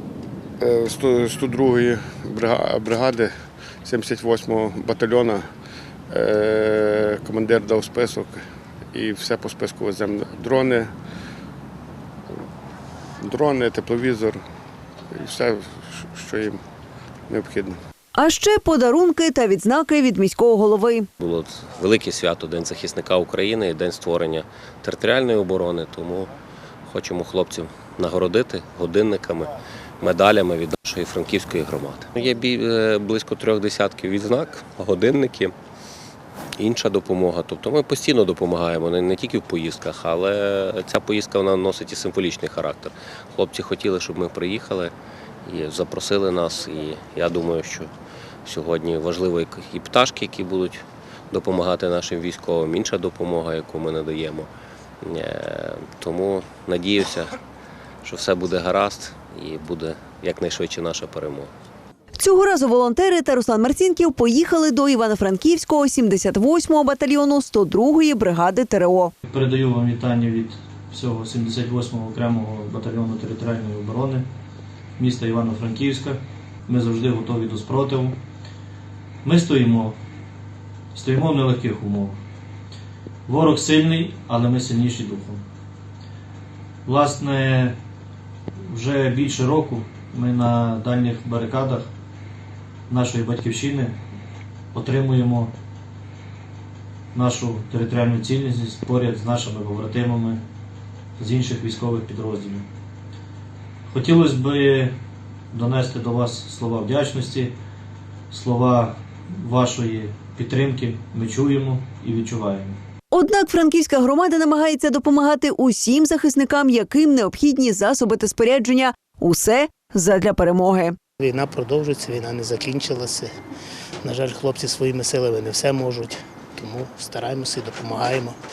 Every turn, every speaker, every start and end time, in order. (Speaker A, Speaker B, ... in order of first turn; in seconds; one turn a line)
Speaker A: 0.6-3.3
Speaker A: 3.9-5.4
Speaker A: 6.1-8.4
Speaker A: 8.9-10.9
Speaker A: 13.2-14.4
Speaker A: 15.1-16.6
Speaker A: 17.3-17.8
Speaker B: 18.2-21.1
Speaker C: 21.2-26.3
Speaker C: 26.9-35.5
Speaker C: 36.6-44.9
Speaker C: 45.5-47.9
Speaker C: 48.5-54.5
Speaker C: 55.0-57.4
Speaker C: 58.0-61.5
Speaker B: 62.2-69.1
Speaker D: 69.3-74.3
Speaker D: 75.0-78.2
Speaker D: 79.2-80.0
Speaker D: 80.9-82.2
Speaker D: 83.3-85.4
Speaker D: 86.9-87.8
Speaker D: 88.6-91.9
Speaker D: 92.9-94.0
Speaker D: 94.7-95.5
Speaker D: 97.1-100.4
Speaker D: 101.2-102.7
Speaker D: 103.9-105.0
Speaker D: 105.5-107.5
Speaker D: 108.3-112.8
Speaker B: 113.1-121.0
Speaker E: 121.2-123.3
Speaker E: 124.0-128.4